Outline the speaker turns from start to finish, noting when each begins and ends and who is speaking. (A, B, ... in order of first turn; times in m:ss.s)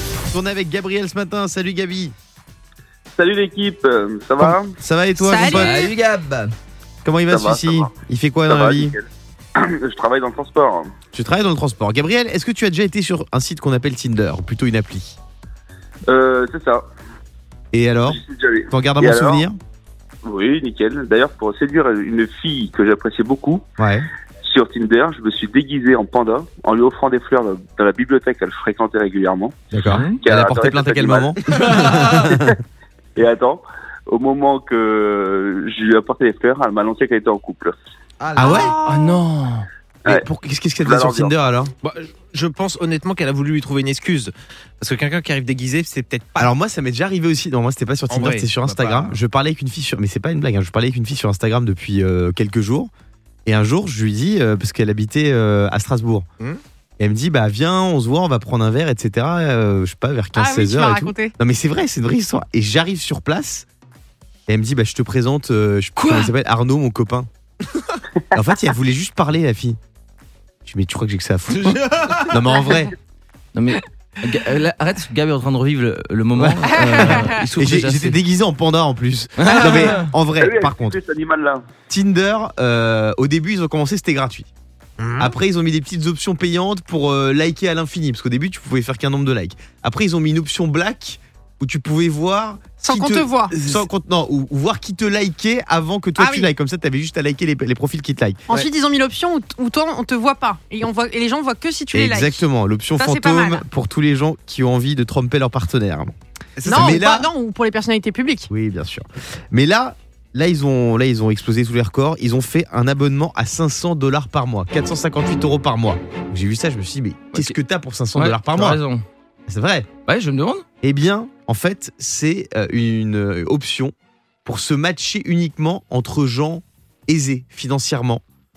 0:00.3-0:02.1 A
0:03.2-0:04.7 B
0:04.4-0:05.9 A
0:05.2-0:05.9 C
0:05.4-0:06.5 D
0:07.0-0:08.9 A
0:07.3-0:07.9 B
0:08.5-0:09.0 B
0:09.6-0:10.9 B
0:11.1-0:15.2 A
0:16.1-0:16.8 B
0:17.7-0:19.6 A
0:18.1-0:19.4 B
0:20.2-0:23.6 B
0:23.8-0:24.0 A
0:24.4-0:29.5 B
0:29.7-0:32.6 A
0:29.9-0:30.2 D
0:30.2-0:32.4 B
0:31.7-0:32.0 D
0:33.2-0:37.7 B
0:38.2-0:38.6 E
0:38.3-0:38.8 A
0:38.4-0:39.2 C
0:38.8-0:39.7 D
0:40.0-0:41.7 A
0:40.8-0:41.3 B
0:41.8-0:46.5 E
0:46.4-0:52.9 A
0:48.1-0:49.2 E
0:53.4-0:56.2 A
0:57.0-1:03.6 A
1:00.3-1:01.3 C
1:04.5-1:07.3 A
1:06.0-1:06.3 D
1:08.3-1:09.8 A
1:10.6-1:12.9 A
1:13.5-1:18.2 D
1:16.3-1:21.0 A
1:16.8-1:17.3 C
1:19.4-1:20.1 D
1:20.4-1:21.6 B
1:21.9-1:24.5 A
1:25.0-1:25.3 E
1:25.2-1:38.4 A
1:32.8-1:33.5 C
1:36.2-1:36.5 C
1:38.5-1:42.4 C
1:41.9-1:47.3 A
1:43.0-1:43.6 C
1:46.6-1:47.0 E
1:46.6-1:48.5 C
1:48.5-1:58.8 A
1:58.1-1:59.0 D
1:59.5-1:59.9 A
2:00.0-2:00.6 D
2:00.8-2:03.9 A
2:04.4-2:08.2 A